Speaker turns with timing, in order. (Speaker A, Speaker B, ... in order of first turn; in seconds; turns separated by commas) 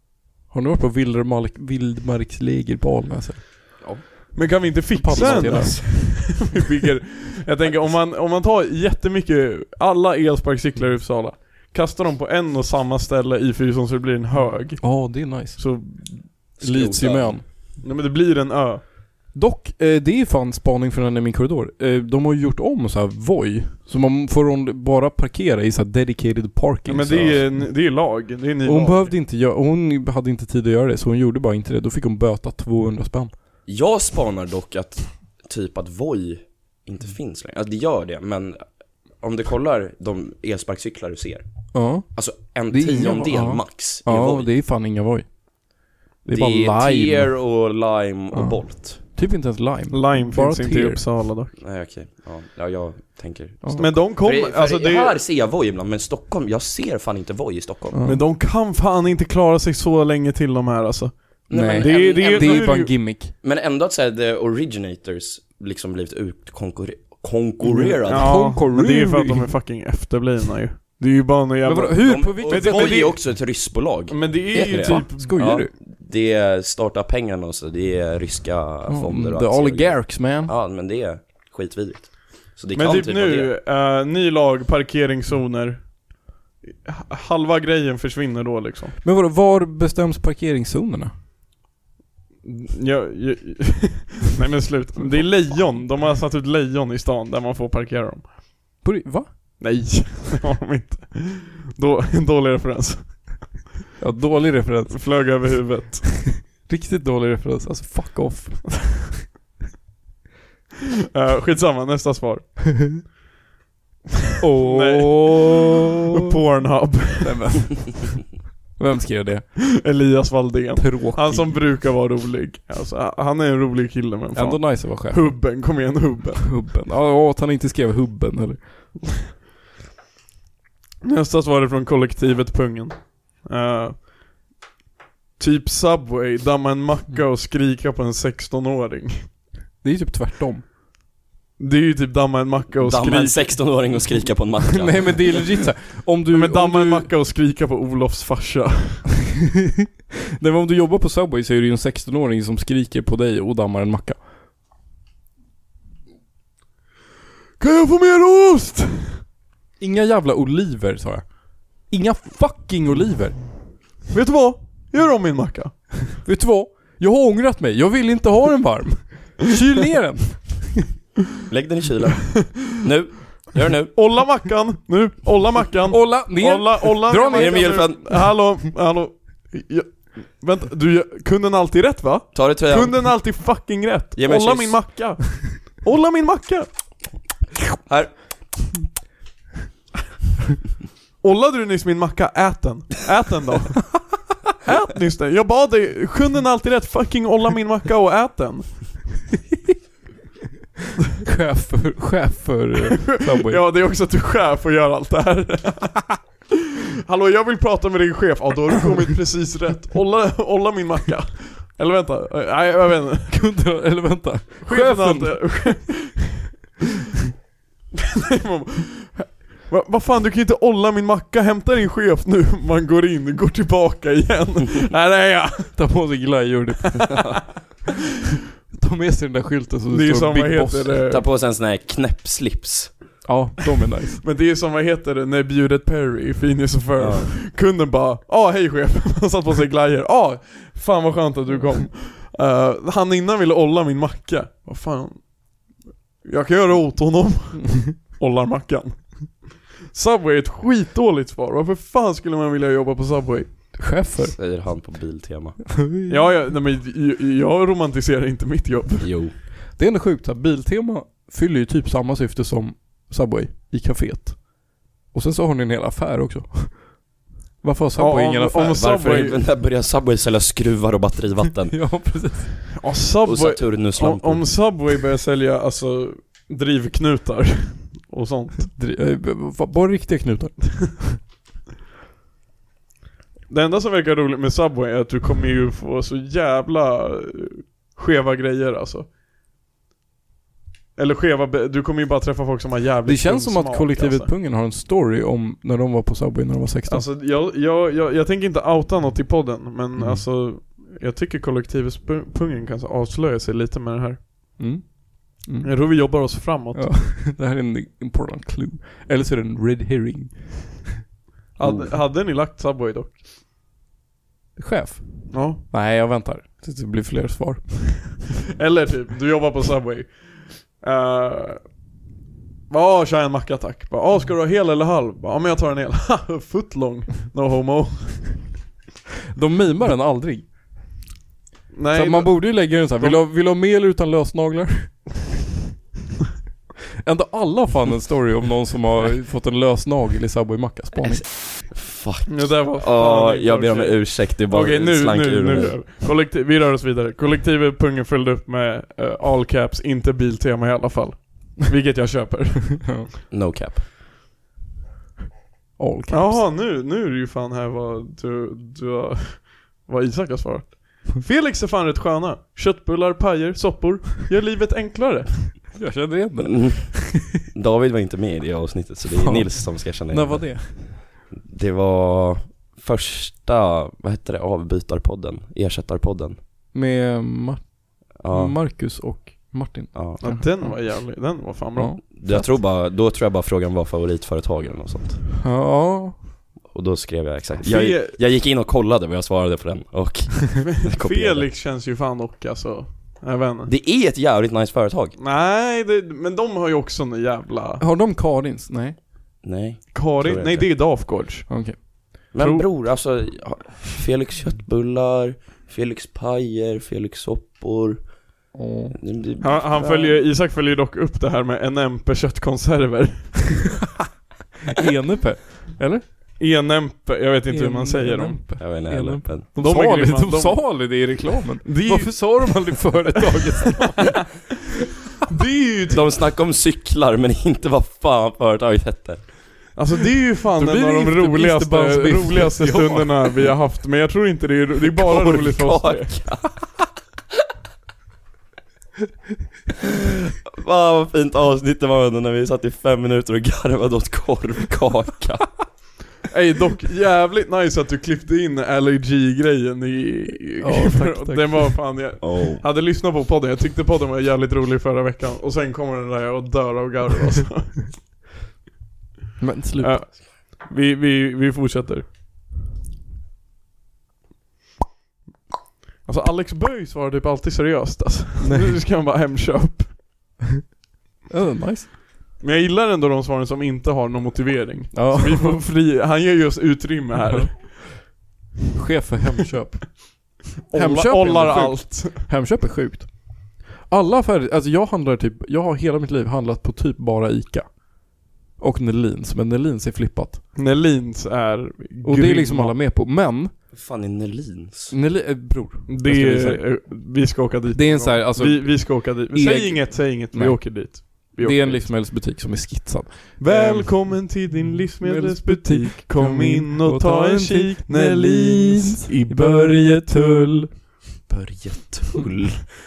Speaker A: 0.5-3.9, Speaker B: 4.3-16.3, Speaker A: 5.0-6.3, Speaker C: 5.1-5.9, Speaker A: 14.8-15.6, Speaker C: 16.6-17.5, Speaker A: 16.6-17.4, Speaker B: 17.8-18.8, Speaker A: 19.3-27.8, Speaker B: 26.9-29.1, Speaker A: 28.6-33.4, Speaker C: 33.7-38.6, Speaker C: 39.2-44.5, Speaker A: 41.7-47.4, Speaker C: 46.2-49.0, Speaker A: 48.3-51.0, Speaker B: 49.9-51.6, Speaker C: 51.6-58.0, Speaker A: 53.6-53.9, Speaker B: 53.8-55.2, Speaker A: 57.9-58.2, Speaker B: 58.1-62.9, Speaker C: 61.5-68.4, Speaker A: 61.5-63.3, Speaker A: 67.6-69.5, Speaker B: 68.1-73.4, Speaker A: 71.6-73.1, Speaker C: 72.0-83.5, Speaker B: 74.1-75.4, Speaker A: 74.5-75.7, Speaker A: 78.9-80.5, Speaker B: 82.7-89.0, Speaker A: 89.0-91.1, Speaker B: 92.4-98.3, Speaker A: 98.8-99.3, Speaker B: 99.6-103.6, Speaker A: 104.0-105.2, Speaker B: 104.9-106.3, Speaker A: 106.4-108.9, Speaker B: 111.1-113.1, Speaker A: 114.4-115.8, Speaker B: 114.6-117.7, Speaker A: 117.2-118.2, Speaker A: 118.8-119.6, Speaker B: 119.8-126.6, Speaker A: 120.8-121.6, Speaker A: 124.3-125.4, Speaker A: 126.4-128.9, Speaker B: 131.0-134.1, Speaker B: 135.4-139.3, Speaker A: 139.8-140.7, Speaker B: 141.6-143.9, Speaker C: 142.8-145.5, Speaker A: 144.7-147.1, Speaker B: 146.3-149.1, Speaker A: 150.4-154.2, Speaker B: 157.6-159.2, Speaker A: 159.8-163.4, Speaker B: 164.1-166.0, Speaker A: 166.2-170.8, Speaker C: 171.5-173.9, Speaker B: 173.9-186.7, Speaker A: 175.9-178.0, Speaker C: 177.3-178.1, Speaker C: 182.3-183.1, Speaker C: 184.2-184.9, Speaker C: 187.9-188.3, Speaker B: 191.2-194.0, Speaker B: 194.6-199.0, Speaker A: 201.2-203.6, Speaker B: 203.0-206.3, Speaker B: 207.1-213.4, Speaker A: 213.3-215.8, Speaker B: 214.6-216.4, Speaker B: 218.1-225.9, Speaker A: 225.8-227.2, Speaker A: 228.7-231.0, Speaker B: 229.9-231.2, Speaker C: 231.1-232.9, Speaker A: 233.2-234.2, Speaker B: 234.2-253.8, Speaker C: 237.0-237.3, Speaker A: 253.8-254.4, Speaker C: 254.3-255.6, Speaker A: 255.8-256.2, Speaker B: 256.1-259.1, Speaker C: 259.0-259.3, Speaker A: 259.8-267.1, Speaker A: 267.6-268.8, Speaker B: 268.0-269.4, Speaker C: 268.7-271.9, Speaker A: 271.7-272.7, Speaker B: 272.8-278.7, Speaker C: 273.2-274.6, Speaker A: 278.7-281.2, Speaker B: 283.5-289.1, Speaker B: 291.0-294.3, Speaker A: 293.1-297.1, Speaker B: 296.9-304.9, Speaker A: 300.0-300.2, Speaker A: 304.6-310.9, Speaker B: 305.6-306.9, Speaker B: 311.6-313.2, Speaker C: 311.6-311.9, Speaker A: 314.6-318.2, Speaker B: 315.3-315.6, Speaker B: 318.6-321.6, Speaker B: 322.7-328.5, Speaker A: 329.3-330.5, Speaker B: 331.7-333.2, Speaker A: 331.9-335.1, Speaker A: 337.0-341.3, Speaker C: 341.0-345.8, Speaker B: 342.3-353.0, Speaker C: 353.3-353.8, Speaker A: 355.8-356.4, Speaker B: 356.1-365.7, Speaker A: 365.8-367.2, Speaker C: 366.4-376.4, Speaker A: 369.2-370.9, Speaker A: 376.7-382.5, Speaker C: 378.2-378.6, Speaker C: 379.9-380.2, Speaker B: 380.2-382.1, Speaker C: 382.1-385.3, Speaker A: 385.4-386.3, Speaker C: 386.7-391.5, Speaker B: 387.6-388.2, Speaker B: 390.7-393.7, Speaker C: 393.7-395.1, Speaker B: 395.2-397.8, Speaker A: 397.8-399.0, Speaker C: 399.4-400.7, Speaker B: 399.9-402.7, Speaker A: 401.5-401.8, Speaker C: 402.3-408.2, Speaker A: 408.5-409.0, Speaker C: 408.9-409.7, Speaker B: 409.4-413.7, Speaker A: 409.8-410.2, Speaker A: 414.7-416.1, Speaker B: 416.4-418.4, Speaker A: 417.5-424.3, Speaker C: 418.6-419.5, Speaker B: 419.6-423.8, Speaker B: 425.3-426.1, Speaker C: 425.9-429.4, Speaker B: 429.8-436.2, Speaker A: 430.6-433.3, Speaker C: 434.8-436.7, Speaker C: 440.4-445.7, Speaker B: 446.3-457.9, Speaker A: 450.6-451.8, Speaker C: 452.2-452.6, Speaker A: 459.4-460.0, Speaker B: 459.8-462.1, Speaker B: 466.1-470.0, Speaker A: 468.4-468.7, Speaker A: 471.3-471.9, Speaker B: 472.4-477.9, Speaker A: 474.9-475.6, Speaker A: 477.3-477.6, Speaker A: 478.8-490.4, Speaker B: 480.7-482.2, Speaker B: 490.6-492.8, Speaker A: 492.0-493.5, Speaker C: 493.7-494.9, Speaker A: 494.9-496.8, Speaker B: 495.9-501.9, Speaker A: 497.7-504.4, Speaker B: 503.4-510.1, Speaker A: 505.0-510.7, Speaker C: 511.3-512.6